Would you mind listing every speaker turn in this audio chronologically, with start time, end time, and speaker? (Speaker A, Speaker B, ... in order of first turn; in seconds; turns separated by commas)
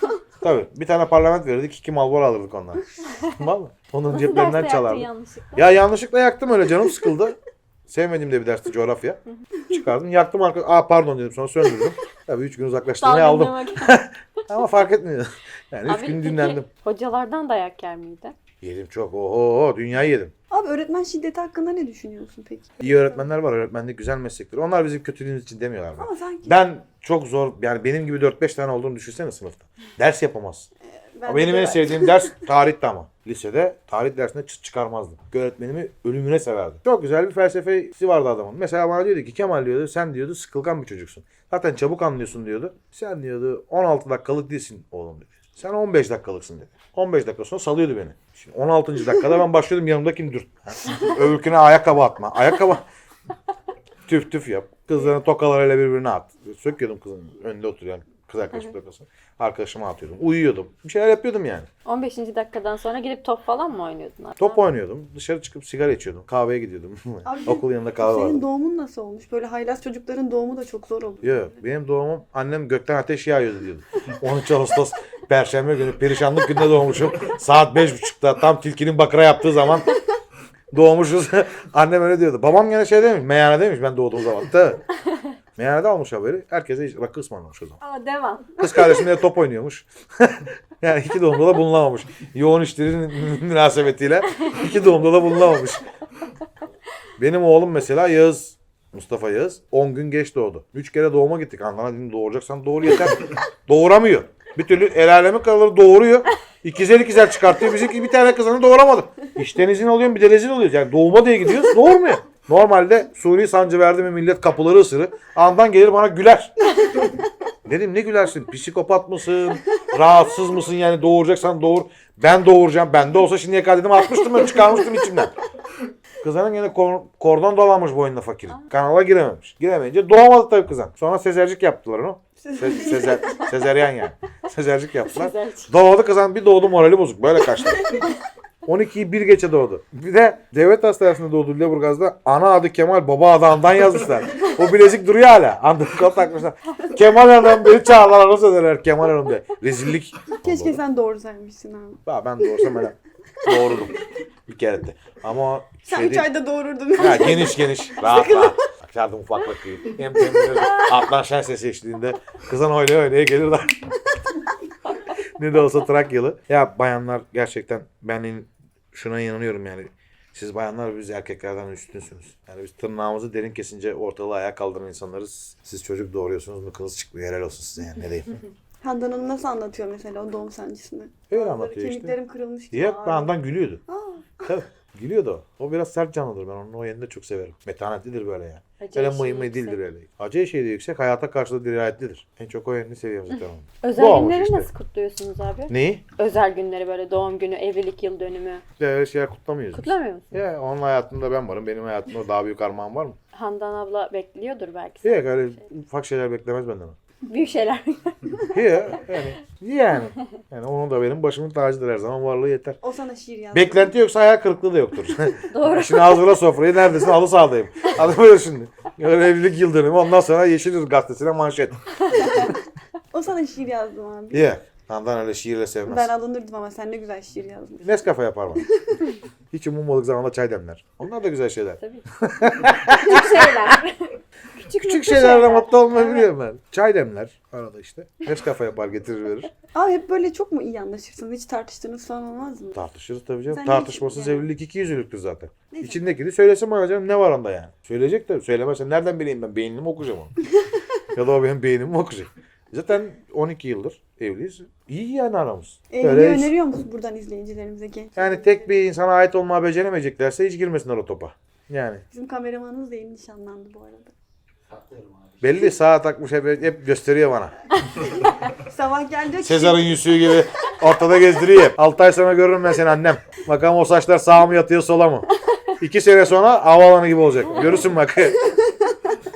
Speaker A: 0.4-16.7, Speaker B: 4.1-5.7, Speaker B: 13.0-14.4, Speaker B: 15.8-18.3, Speaker A: 18.6-20.3, Speaker C: 20.5-23.2, Speaker A: 22.8-30.7, Speaker C: 26.0-26.6, Speaker C: 31.0-32.3, Speaker A: 31.3-52.9, Speaker A: 54.0-61.7, Speaker B: 61.8-64.6, Speaker A: 64.4-68.4, Speaker C: 67.2-71.6, Speaker A: 71.2-79.9, Speaker A: 80.7-84.8, Speaker A: 85.5-87.8, Speaker B: 87.8-89.0, Speaker A: 88.6-95.8, Speaker A: 97.2-116.5, Speaker A: 117.6-125.3, Speaker A: 126.2-138.0, Speaker C: 132.4-133.4, Speaker B: 135.1-135.7, Speaker A: 138.6-150.8, Speaker C: 150.3-152.0, Speaker A: 152.1-156.3, Speaker C: 155.8-158.6, Speaker A: 157.0-164.0, Speaker A: 165.3-178.4, Speaker C: 178.8-183.3, Speaker A: 181.3-182.2, Speaker A: 182.7-183.8, Speaker C: 183.9-184.3, Speaker A: 184.4-194.7, Speaker B: 188.8-189.8, Speaker B: 193.8-198.6, Speaker A: 195.7-196.1, Speaker A: 198.8-203.2, Speaker B: 199.7-200.3, Speaker B: 203.3-205.6, Speaker A: 205.0-207.0, Speaker B: 207.2-208.6, Speaker A: 208.5-212.8, Speaker C: 212.8-213.9, Speaker A: 213.5-222.4, Speaker B: 215.5-216.4, Speaker C: 223.1-224.5, Speaker A: 224.3-226.1, Speaker C: 225.9-228.0, Speaker A: 227.8-228.7, Speaker A: 229.5-233.8, Speaker B: 231.8-232.0, Speaker B: 232.9-236.3, Speaker A: 234.8-239.5, Speaker C: 239.7-242.8, Speaker A: 242.7-250.3, Speaker C: 243.5-244.4, Speaker C: 245.7-246.2, Speaker A: 251.1-256.5, Speaker C: 255.9-258.8, Speaker A: 258.2-262.0, Speaker C: 262.1-264.1, Speaker A: 265.4-267.5, Speaker C: 268.2-269.9, Speaker A: 269.4-275.3, Speaker A: 275.8-278.5